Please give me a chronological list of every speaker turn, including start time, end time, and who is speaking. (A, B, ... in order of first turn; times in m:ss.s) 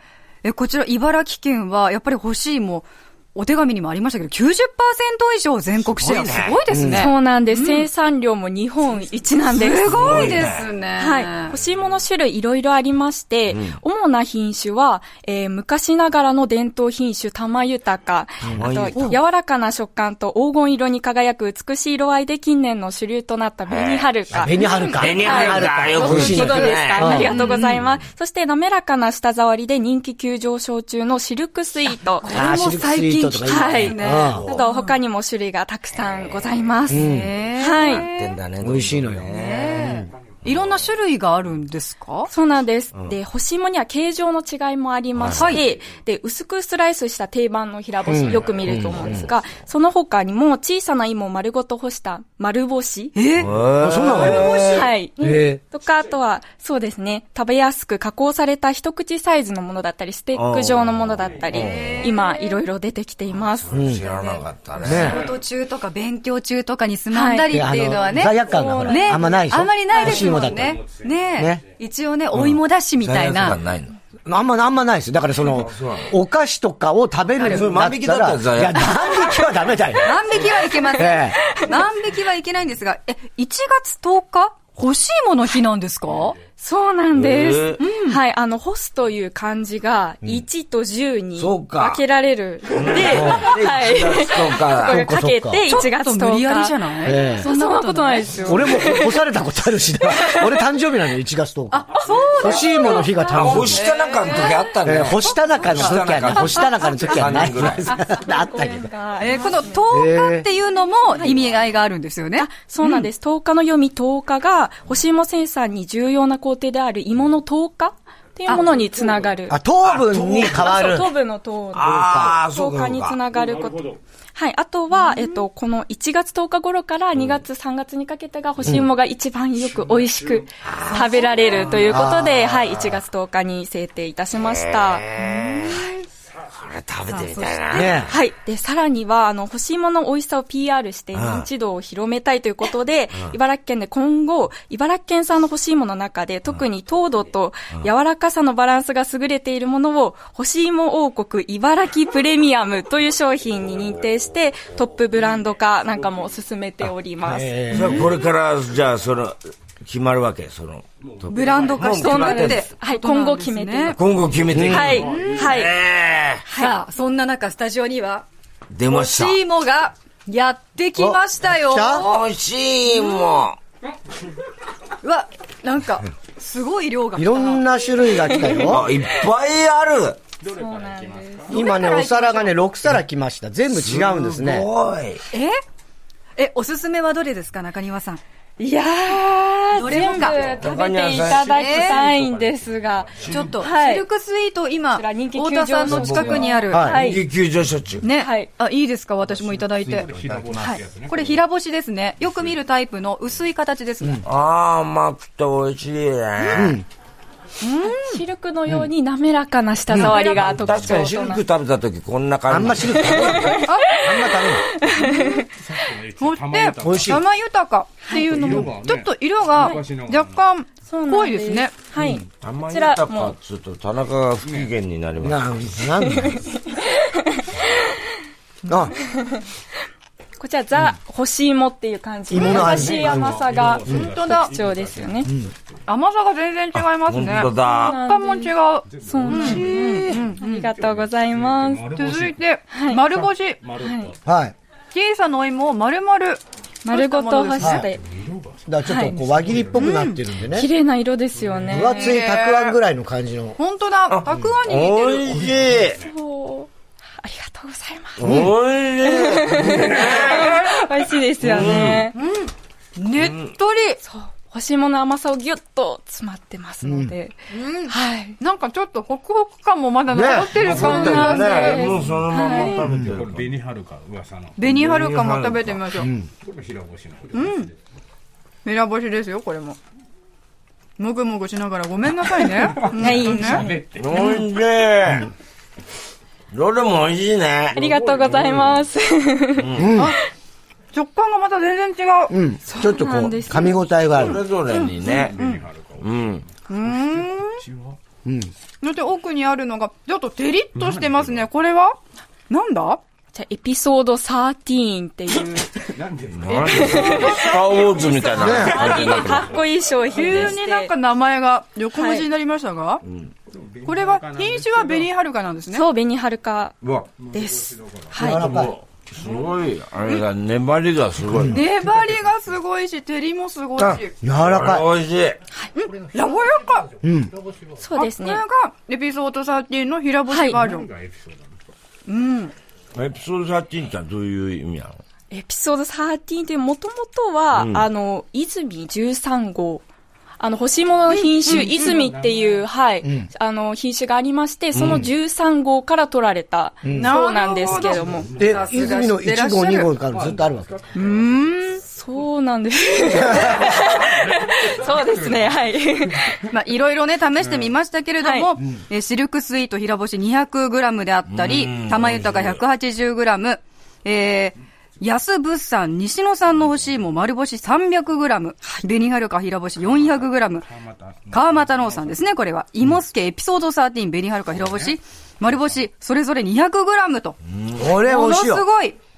0:00.4-0:07.8 A
0:06.0-0:06.6 B
0:06.7-0:07.1 C
0:06.9-0:10.4 D
0:09.5-0:11.6 A
0:09.8-0:10.6 B
0:11.0-0:32.3 D
0:13.5-0:13.8 B
0:18.5-0:19.2 B
0:18.9-0:19.2 A
0:23.7-0:24.1 B
0:24.3-0:27.4 C
0:24.6-0:27.7 A
0:24.9-0:27.9 B
0:32.2-0:35.0 A
0:32.3-0:34.5 C
0:33.4-0:38.1 D
0:36.9-0:37.3 C
0:36.9-0:38.4 A
0:37.9-0:39.9 B
0:38.6-0:40.1 C
0:39.3-0:42.3 A
0:42.3-0:53.1 D
0:45.2-0:45.5 B
0:45.3-0:45.6 A
0:48.0-0:49.3 C
0:53.1-0:53.5 A
0:53.4-0:54.9 B
0:53.8-0:55.6 C
0:54.0-1:03.8 D
1:00.3-1:02.1 B
1:01.5-1:02.6 A
1:03.6-1:05.2 B
1:03.7-1:04.0 C
1:04.0-1:13.6 A
1:04.8-1:05.3 C
1:07.1-1:07.5 D
1:07.5-1:10.8 C
1:08.3-1:09.4 D
1:10.0-1:10.3 D
1:10.5-1:11.1 E
1:11.4-1:11.6 C
1:12.3-1:14.0 B
1:14.2-1:21.4 C
1:15.5-1:16.1 B
1:17.4-1:17.6 A
1:17.4-1:19.4 B
1:20.0-1:26.4 A
1:21.5-1:21.7 D
1:26.6-1:39.2 D
1:27.1-1:27.8 B
1:27.8-1:28.2 A
1:31.4-1:32.0 B
1:32.7-1:35.1 B
1:33.0-1:33.5 C
1:34.8-1:35.6 C
1:35.6-1:39.0 A
1:37.0-1:37.5 C
1:38.4-1:43.8 C
1:40.0-1:40.6 D
1:41.7-1:44.7 A
1:43.3-1:48.0 B
1:44.8-1:48.9 C
1:45.5-1:47.0 A
1:48.0-1:49.8 D
1:49.2-1:53.1 A
1:49.9-1:50.5 C
1:52.4-1:59.6 D
1:59.5-2:01.1 C
1:59.8-2:00.8 B
2:00.3-2:15.0 D
2:01.7-2:03.2 B
2:01.8-2:02.4 C
2:04.9-2:05.4 A
2:08.6-2:08.9 C
2:10.6-2:11.6 B
2:10.9-2:11.5 A
2:11.8-2:12.6 C
2:14.4-2:15.8 B
2:15.2-2:16.0 A
2:16.5-2:18.1 B
2:17.1-2:18.0 A
2:17.7-2:18.2 C
2:18.1-2:38.0 D
2:21.1-2:21.5 B
2:37.2-2:38.1 C
2:37.7-2:42.6 B
2:41.2-2:41.8 E
2:41.3-2:44.0 A
2:41.8-2:44.0 D
2:43.9-2:46.4 B
2:44.3-2:45.4 E
2:44.5-2:44.9 C
2:44.6-2:45.7 D
2:44.9-2:45.6 A
2:46.4-2:46.8 D
2:46.6-2:48.2 A
2:48.7-2:49.4 B
2:48.9-2:52.2 A
2:51.0-2:52.1 C
2:51.9-2:53.6 B
2:55.0-2:57.6 A
2:57.2-2:58.9 C
2:58.3-2:58.6 D
2:58.5-3:00.2 B
3:00.4-3:01.5 E
3:00.5-3:02.5 D
3:01.5-3:04.7 C
3:03.7-3:05.2 B
3:05.3-3:05.6 A
3:06.4-3:08.2 A
3:08.6-3:14.0 D
3:09.7-3:10.6 A
3:10.2-3:12.4 B
3:10.3-3:10.7 E
3:11.5-3:12.1 A
3:12.0-3:13.6 E
3:13.2-3:13.6 B
3:13.2-3:17.1 A
3:14.9-3:17.2 D
3:15.9-3:18.1 B
3:16.7-3:17.1 C
3:18.0-3:24.2 A
3:18.1-3:18.5 D
3:19.3-3:21.4 E
3:24.2-3:26.8 B
3:26.5-3:26.8 C
3:27.6-3:28.2 A
3:28.0-3:31.4 D
3:29.9-3:30.2 C
3:30.0-3:33.6 B
3:30.0-3:30.5 A
3:30.5-3:30.8 E
3:32.5-3:34.8 C
3:33.0-3:35.5 D
3:33.6-3:34.0 A
3:35.1-3:37.2 E
3:36.2-3:41.8 A
3:36.8-3:37.2 C
3:38.1-3:38.4 D
3:38.2-3:40.5 E
3:40.8-3:43.3 D
3:42.4-3:45.8 B
3:45.2-3:46.4 C
3:46.0-3:48.0 D
3:48.7-3:48.9 C
3:48.9-3:49.4 D
3:50.4-3:55.3 D
3:52.3-3:54.0 C
3:52.3-3:55.3 E
3:54.0-3:54.5 A
3:55.2-3:55.5 C
3:55.9-4:00.7 A
3:56.7-3:58.0 B
3:57.6-4:02.0 D
3:58.9-4:02.4 E
4:01.9-4:03.6 A
4:02.7-4:03.1 D
4:03.1-4:04.2 E
4:03.8-4:04.1 D
4:04.2-4:04.5 C
4:04.9-4:07.8 A
4:06.8-4:08.0 D
4:07.6-4:07.9 C
4:08.0-4:08.6 E
4:08.6-4:10.7 C
4:08.8-4:09.3 D
4:09.3-4:09.9 E
4:09.7-4:10.2 A
4:10.4-4:12.2 D
4:11.4-4:11.8 E
4:11.7-4:13.6 C
4:11.8-4:12.8 A
4:13.6-4:15.6 A
4:14.1-4:16.0 B
4:15.5-4:16.0 E
4:16.0-4:18.5 D
4:18.2-4:20.8 B
4:18.2-4:18.5 C
4:19.0-4:22.1 D
4:21.4-4:22.1 B
4:22.1-4:24.0 A
4:23.2-4:23.5 B
4:24.0-4:27.4 D
4:26.8-4:27.1 C
4:27.5-4:31.9 A
4:27.9-4:28.4 D
4:30.1-4:33.5 B
4:30.5-4:32.8 D
4:32.0-4:34.7 E
4:32.8-4:33.1 C
4:34.6-4:36.1 A
4:34.6-4:35.9 B
4:36.0-4:36.3 C
4:36.4-4:37.7 E
4:37.3-4:37.7 A
4:38.6-4:39.8 A
4:41.0-4:43.7 A
4:42.6-4:44.4 E
4:42.9-4:44.4 D
4:44.0-4:45.3 B
4:46.5-4:47.8 B
4:47.7-4:48.8 E
4:47.7-4:49.9 D
4:49.6-4:49.9 B
4:49.8-4:50.1 C
4:50.9-4:52.3 A
4:52.3-4:54.4 C
4:52.7-4:53.8 D
4:54.1-4:55.4 B
4:54.7-4:55.6 A
4:55.0-4:58.0 E
4:56.0-4:56.4 B
4:56.7-4:57.6 A
4:58.2-4:58.5 C
4:58.8-5:02.0 A
5:00.7-5:01.5 E
5:02.5-5:03.0 A
5:03.3-5:05.9 D
5:05.8-5:07.2 E
5:06.3-5:09.6 B
5:06.5-5:07.6 A
5:06.7-5:10.9 D
5:07.7-5:09.7 E
5:08.4-5:08.8 C
5:10.1-5:13.0 A
5:11.9-5:12.3 D
5:13.5-5:15.1 E
5:13.8-5:15.8 A
5:15.7-5:16.7 D
5:16.8-5:17.1 B
5:17.2-5:18.6 E
5:17.3-5:18.7 D
5:18.1-5:18.7 C
5:18.2-5:21.6 B
5:21.5-5:24.2 A
5:21.7-5:22.6 E
5:23.8-5:25.4 B
5:24.2-5:24.9 C
5:25.7-5:26.9 A
5:26.9-5:27.8 E
5:27.0-5:27.3 C
5:27.8-5:28.4 D
5:27.9-5:30.9 A
5:30.3-5:30.6 D
5:30.6-5:31.5 E
5:32.1-5:32.5 A
5:32.9-5:35.0 B
5:35.3-5:39.8 D
5:37.5-5:37.9 B
5:40.4-5:48.3 D
5:41.1-5:42.1 A
5:41.6-5:42.6 E
5:43.0-5:43.3 C
5:44.7-5:45.0 B
5:44.8-5:45.1 C
5:46.8-5:47.1 C
5:46.9-5:49.9 A
5:47.8-5:48.8 E
5:48.3-5:50.8 C
5:50.1-5:51.6 E
5:51.0-5:56.4 D
5:53.1-5:55.5 E
5:53.2-5:53.5 C
5:56.5-6:10.7 A
5:58.2-5:58.5 D
6:01.3-6:02.6 B
6:06.6-6:06.9 E
6:09.8-6:12.2 E
6:11.3-6:17.4 A
6:14.6-6:14.9 E
6:17.5-6:17.8 B
6:17.7-6:18.6 C
6:18.0-6:19.0 A